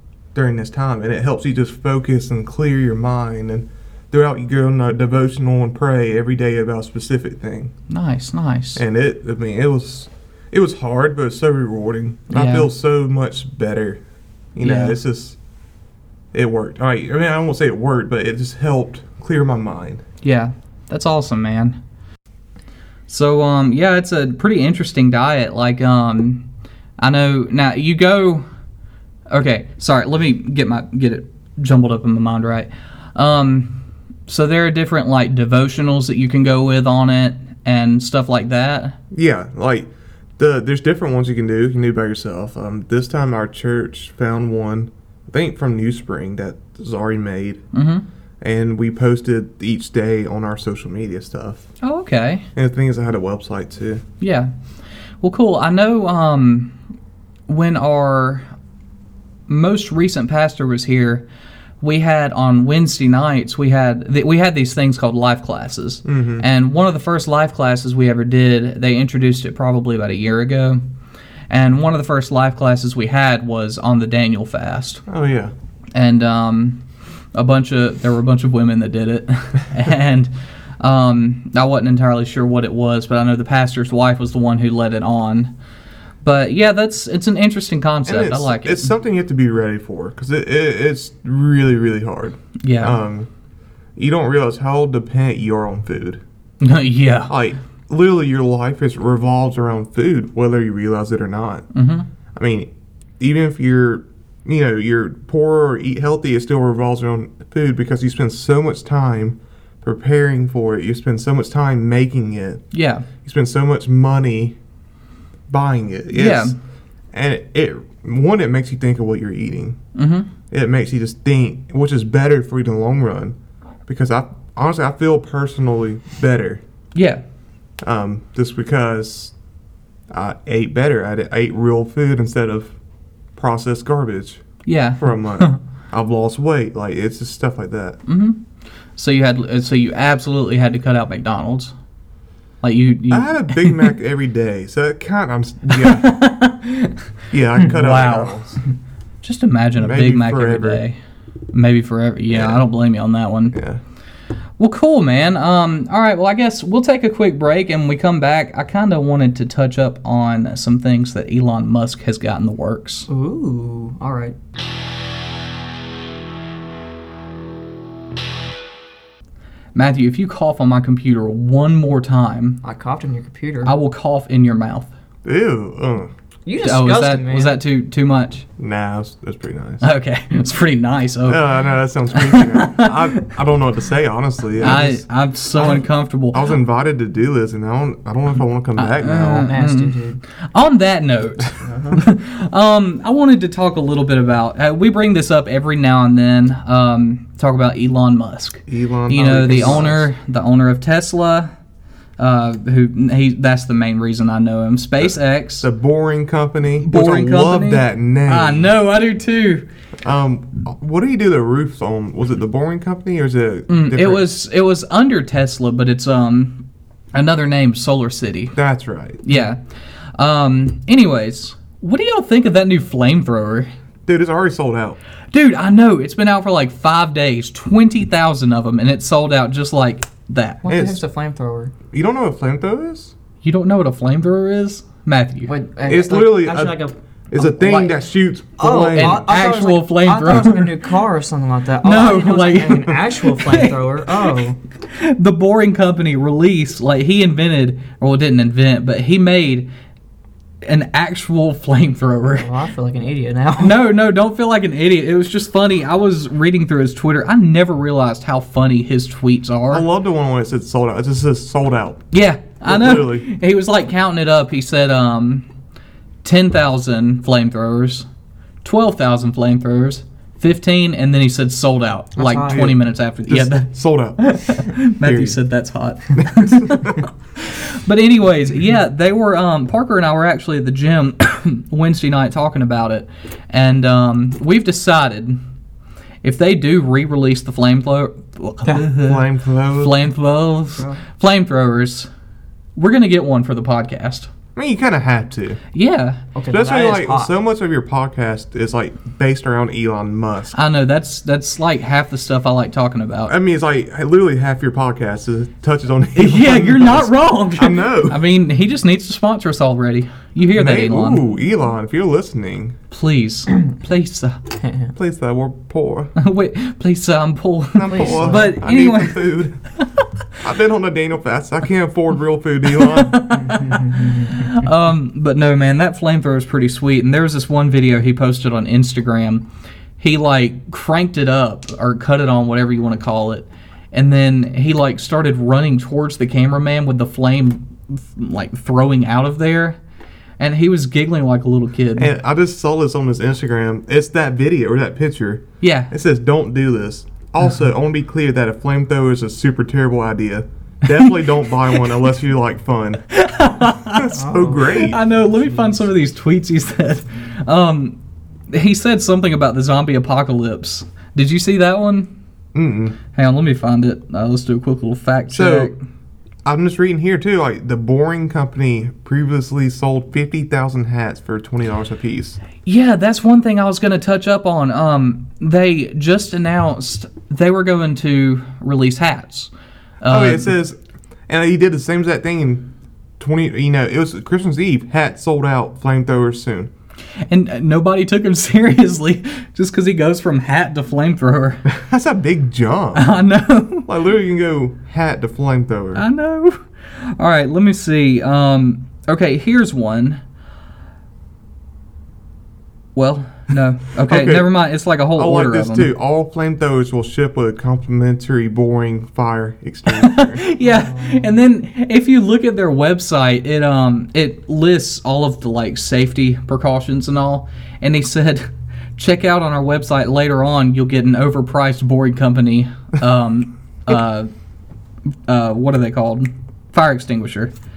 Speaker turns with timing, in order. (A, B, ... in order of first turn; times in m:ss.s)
0:00.3-0:07.7 A
0:07.9-0:08.8 B
0:08.8-0:14.0 A
0:12.3-0:12.7 B
0:14.6-0:15.4 A
0:14.6-0:15.0 B
0:16.3-0:20.0 A
0:20.2-0:21.8 B
0:23.1-0:26.5 B
0:27.0-0:28.4 B
0:29.3-0:39.0 B
0:39.1-0:47.6 A
0:47.7-0:48.0 B
0:48.4-0:51.7 A
0:51.8-0:52.5 B
0:52.6-0:54.0 A
0:54.2-0:54.5 B
0:55.2-0:56.8 B
0:57.5-0:58.5 B
0:59.5-1:01.2 B
1:01.8-1:10.8 B
1:06.0-1:06.5 A
1:11.5-1:15.0 B
1:15.1-1:15.5 A
1:15.9-1:16.8 B
1:17.3-1:25.5 B
1:26.2-1:28.9 B
1:28.1-1:33.3 A
1:32.6-1:33.0 B
1:34.0-1:36.2 A
1:36.6-1:37.3 B
1:37.3-1:41.7 A
1:41.7-1:42.1 B
1:42.4-1:52.6 A
1:52.7-1:53.1 B
1:53.2-1:54.6 A
1:55.5-1:56.6 A
1:56.1-1:56.6 B
1:57.1-1:59.8 A
2:00.0-2:00.3 B
2:00.5-2:06.6 A
2:07.0-2:07.2 B
2:07.8-2:09.3 A
2:10.1-2:12.8 A
2:13.4-2:14.4 A
2:14.7-2:15.6 B
2:15.0-2:18.0 A
2:18.1-2:18.4 B
2:19.0-2:21.7 B
2:22.6-2:23.9 B
2:23.1-2:26.1 A
2:25.7-2:27.0 B
2:27.3-2:28.6 A
2:27.6-2:28.4 B
2:29.2-2:31.0 B
2:29.8-2:30.8 A
2:31.5-2:33.6 B
2:32.3-2:32.6 A
2:33.5-2:33.8 A
2:34.6-2:43.1 B
2:43.1-2:44.4 C
2:49.8-2:52.6 B
2:52.6-2:53.7 C
2:53.6-2:54.9 B
2:55.2-2:56.1 A
2:56.5-2:57.6 C
2:56.6-2:58.4 B
2:58.6-2:59.9 A
2:59.8-3:01.4 B
3:01.2-3:09.5 A
3:02.1-3:03.2 B
3:04.6-3:06.4 B
3:08.8-3:10.0 B
3:09.4-3:10.2 C
3:10.5-3:21.5 B
3:11.6-3:12.0 C
3:18.7-3:20.1 A
3:22.2-3:25.7 B
3:25.0-3:28.7 A
3:26.8-3:29.6 B
3:30.0-3:34.2 A
3:33.7-3:38.6 B
3:38.6-3:39.2 A
3:39.2-3:39.6 B
3:40.2-3:43.7 B
3:44.1-3:45.0 A
3:45.3-3:50.7 B
3:50.6-3:51.7 C
3:50.7-3:51.0 A
3:51.9-3:53.1 A
3:53.4-3:55.5 B
3:55.5-3:58.0 C
3:55.9-3:59.3 A
3:58.6-4:04.6 C
3:58.9-4:00.7 B
4:01.8-4:04.0 B
4:04.8-4:09.7 B
4:10.6-4:12.5 B
4:12.3-4:13.8 C
4:13.6-4:19.8 B
4:19.7-4:22.1 A
4:22.1-4:25.5 B
4:22.6-4:23.3 A
4:26.2-4:28.1 B
4:28.6-4:45.4 B
4:32.2-4:32.7 C
4:32.5-4:35.4 A
4:36.2-4:37.0 A
4:46.2-4:52.1 B
4:48.9-4:50.0 A
4:52.8-4:54.3 B
4:54.6-4:55.6 A
4:55.7-4:56.2 B
4:56.4-4:57.3 C
4:56.5-5:00.6 A
5:00.5-5:03.3 B
5:03.3-5:08.2 A
5:06.2-5:11.2 B
5:10.5-5:12.8 A
5:12.9-5:14.4 B
5:14.6-5:14.9 C
5:15.0-5:16.1 A
5:16.2-5:19.3 B
5:17.8-5:19.6 A
5:17.9-5:18.5 C
5:20.4-5:23.2 A
5:22.7-5:29.4 B
5:23.3-5:24.7 C
5:30.0-5:39.8 B
5:40.4-5:42.1 B
5:42.0-5:53.0 A
5:45.6-5:45.9 B
5:53.1-5:58.0 B
5:53.9-5:55.0 A
5:54.2-5:54.9 C
5:58.5-6:02.1 B
6:02.5-6:03.0 A
6:03.1-6:05.8 B
6:05.3-6:05.7 A
6:06.4-6:12.4 A
6:12.6-6:20.5 B
6:20.1-6:20.8 A
6:21.3-6:26.7 A
6:27.3-6:31.6 B
6:31.7-6:33.1 A
6:33.0-6:33.9 B
6:33.9-6:36.0 A
6:36.0-6:40.2 B
6:43.0-6:45.9 B
6:44.0-6:44.5 A
6:45.2-6:50.4 A
6:49.9-7:04.3 B
6:50.6-6:51.4 C
7:05.3-7:07.5 B